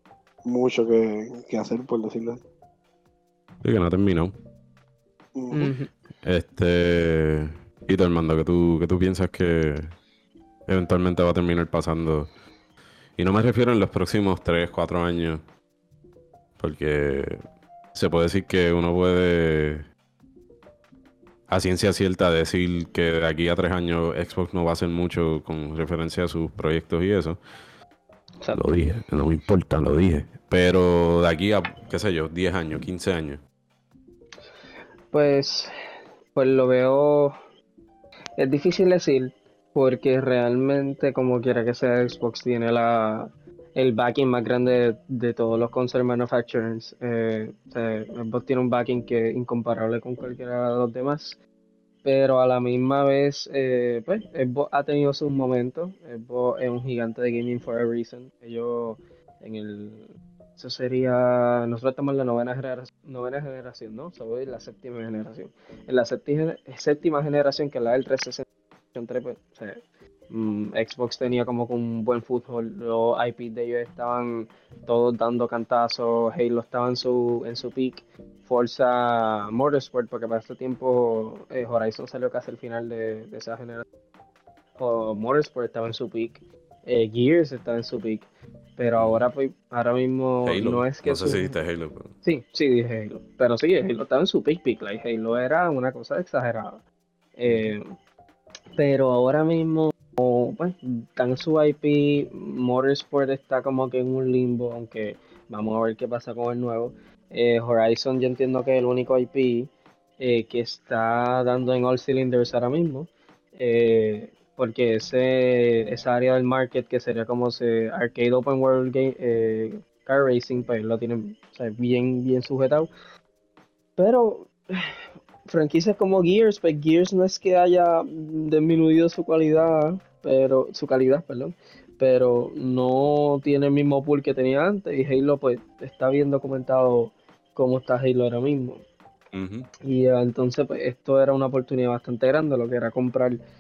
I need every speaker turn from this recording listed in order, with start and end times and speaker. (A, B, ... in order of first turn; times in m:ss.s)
0:00.5-0:02.4 A
0:03.6-0:04.4 B
0:05.4-0:05.7 A
0:05.5-0:05.9 C
0:06.2-0:09.9 B
0:10.7-0:12.3 B
0:13.2-0:15.4 B
0:16.6-0:17.4 B
0:17.9-0:19.9 B
0:21.5-0:27.4 B
0:28.5-0:33.4 B
0:35.1-0:35.7 C
0:36.3-0:37.3 C
0:38.4-0:51.4 C
0:52.0-1:23.8 C
1:24.8-1:31.6 C
1:29.0-1:29.3 B
1:30.5-1:32.1 B
1:32.2-1:36.8 C
1:37.4-1:37.9 C
1:37.5-1:37.7 B
1:38.8-2:02.9 C
2:04.0-2:04.5 C
2:05.5-2:18.8 C
2:19.3-2:19.7 B
2:19.8-2:23.4 C